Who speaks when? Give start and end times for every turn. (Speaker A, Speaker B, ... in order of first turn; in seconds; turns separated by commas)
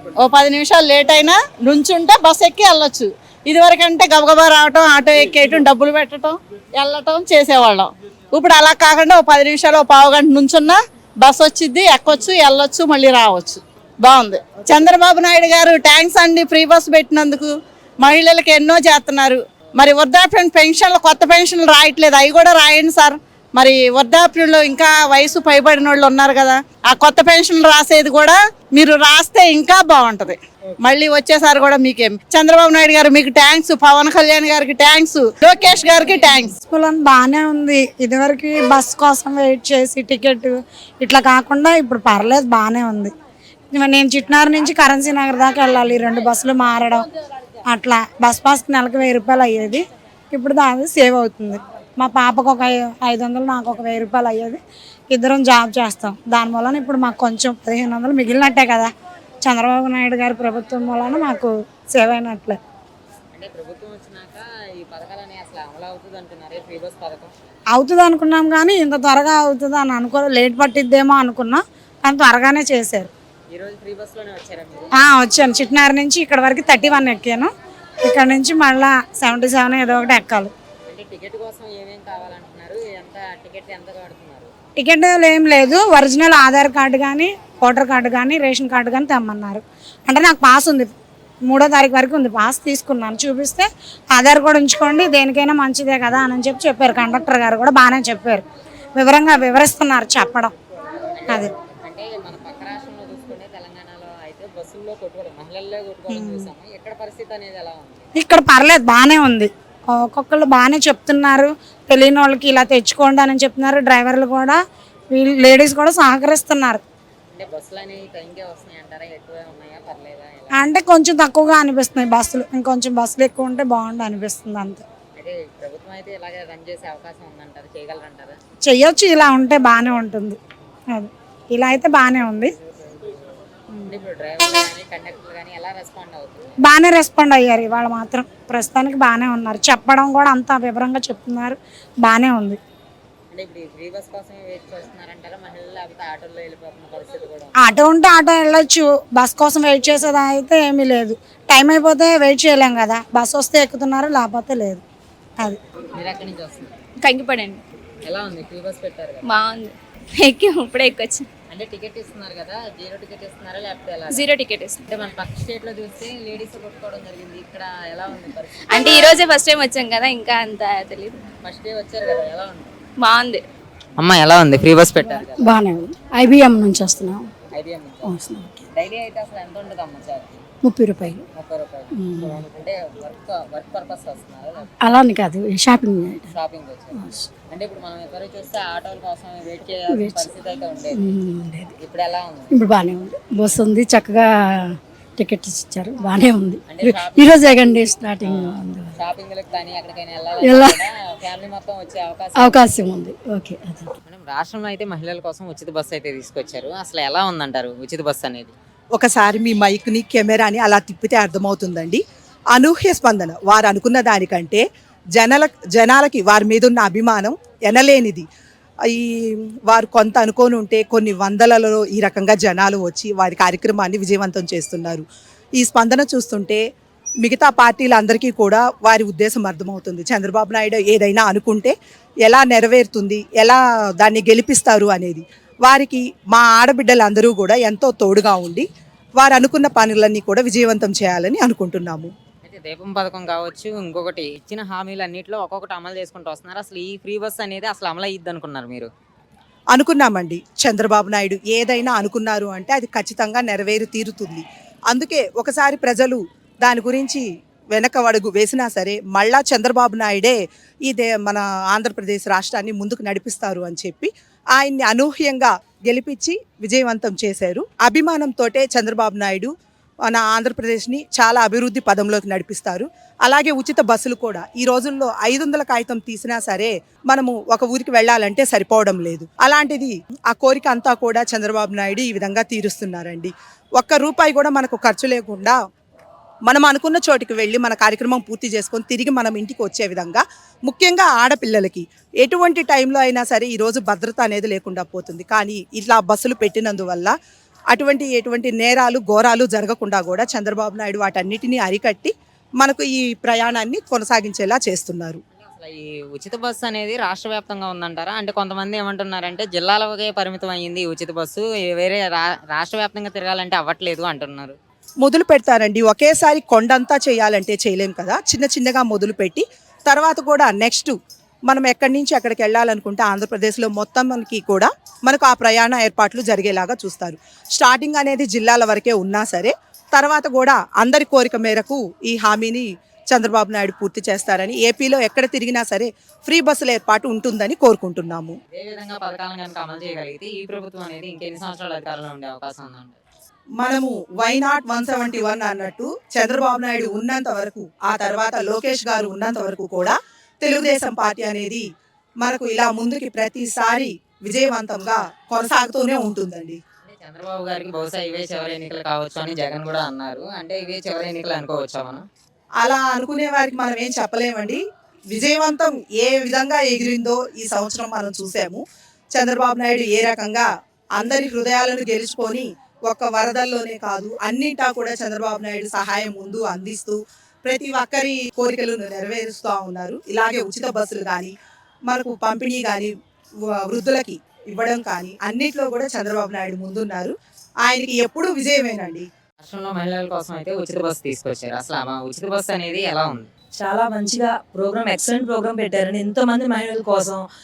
Speaker A: 0.2-36.5, Speaker B: 36.6-43.1, Speaker B: 43.7-47.1, Speaker B: 47.7-54.6, Speaker B: 55.1-58.9, Speaker B: 59.4-62.6, Speaker C: 63.3-67.3, Speaker B: 67.7-73.1, Speaker C: 73.5-74.9, Speaker B: 75.0-77.5, Speaker B: 78.0-80.5, Speaker C: 80.9-84.5, Speaker B: 84.8-90.9, Speaker B: 91.5-100.5, Speaker C: 101.1-108.1, Speaker B: 106.1-106.5, Speaker B: 108.2-114.6, Speaker B: 115.1-116.8, Speaker C: 117.3-120.7, Speaker B: 120.5-124.8, Speaker C: 125.2-128.4, Speaker B: 128.6-130.4, Speaker B: 130.9-132.5, Speaker C: 132.6-136.6, Speaker B: 136.6-142.6, Speaker C: 143.3-147.5, Speaker B: 147.6-154.8, Speaker C: 155.9-156.7, Speaker D: 157.0-157.6, Speaker C: 158.0-159.2, Speaker D: 159.2-161.3, Speaker C: 161.5-164.2, Speaker D: 164.1-164.8, Speaker C: 164.9-169.2, Speaker D: 168.7-171.2, Speaker C: 171.4-172.7, Speaker D: 173.0-173.4, Speaker C: 174.0-175.6, Speaker E: 175.3-177.3, Speaker C: 177.5-178.2, Speaker E: 178.0-178.7, Speaker C: 178.7-180.4, Speaker E: 180.6-181.2, Speaker C: 181.0-184.8, Speaker E: 181.9-182.4, Speaker E: 184.8-186.3, Speaker C: 186.2-191.0, Speaker E: 187.0-187.3, Speaker E: 189.9-190.3, Speaker E: 190.9-191.7, Speaker C: 191.8-192.5, Speaker E: 192.5-198.9, Speaker C: 196.7-197.6, Speaker C: 198.2-202.7, Speaker E: 200.4-200.8, Speaker E: 202.3-203.9, Speaker C: 204.1-208.5, Speaker F: 208.9-212.0, Speaker F: 212.5-214.6, Speaker F: 215.2-218.2, Speaker F: 218.9-225.0, Speaker F: 225.6-226.6, Speaker F: 227.2-231.7, Speaker F: 232.2-238.7, Speaker F: 239.2-242.1, Speaker C: 242.4-248.9, Speaker F: 249.7-257.2, Speaker F: 257.7-269.5, Speaker F: 270.1-285.6, Speaker F: 286.5-297.1, Speaker F: 297.7-305.2, Speaker C: 305.4-314.6, Speaker F: 315.0-320.9, Speaker F: 321.5-338.3, Speaker C: 338.5-343.0, Speaker F: 343.6-351.6, Speaker F: 352.2-356.6, Speaker C: 356.8-362.0, Speaker F: 362.6-364.6, Speaker F: 365.1-368.6, Speaker F: 369.1-381.3, Speaker F: 381.9-382.9, Speaker F: 383.5-389.1, Speaker C: 389.4-393.3, Speaker G: 393.6-397.2